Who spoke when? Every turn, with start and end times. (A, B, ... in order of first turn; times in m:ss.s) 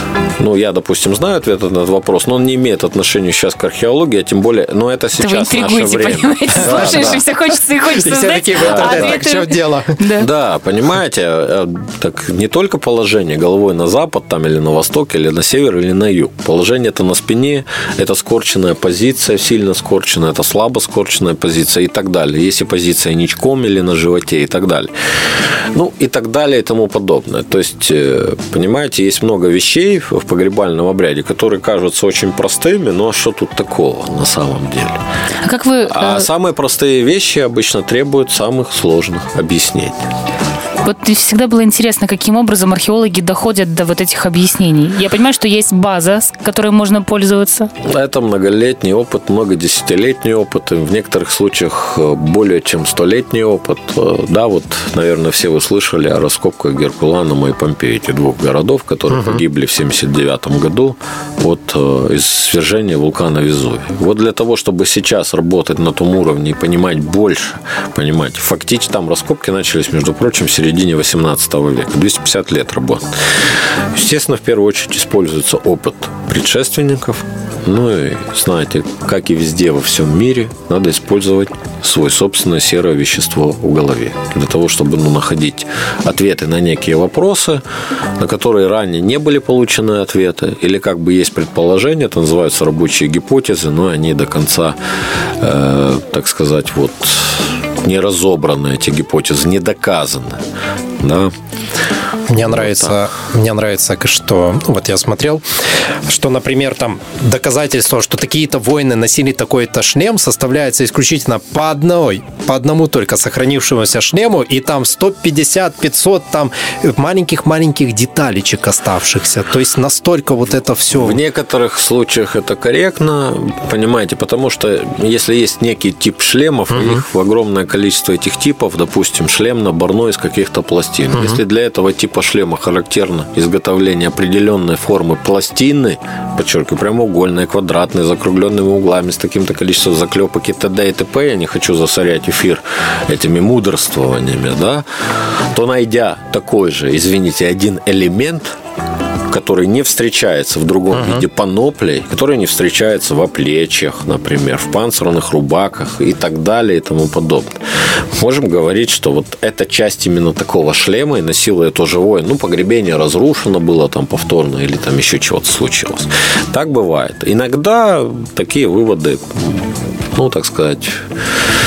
0:00.4-0:07.2 A
0:05.2-0:10.3 B
0:06.6-0:07.2 C
0:07.9-0:10.0 C
0:08.6-0:09.2 A
0:10.1-0:24.9 A
0:25.7-0:35.0 A
0:35.4-0:36.3 B
0:35.9-0:40.1 A
0:40.8-0:47.7 B
0:47.8-1:13.2 A
1:13.9-1:27.6 A
1:28.2-1:34.8 A
1:35.4-1:40.4 A
1:41.0-1:41.3 A
1:42.3-1:45.4 C
1:42.4-1:43.0 A
1:46.1-2:01.2 C
2:01.0-2:28.6 A
2:06.7-2:07.0 C
2:29.3-2:51.0 A
2:31.0-2:31.2 C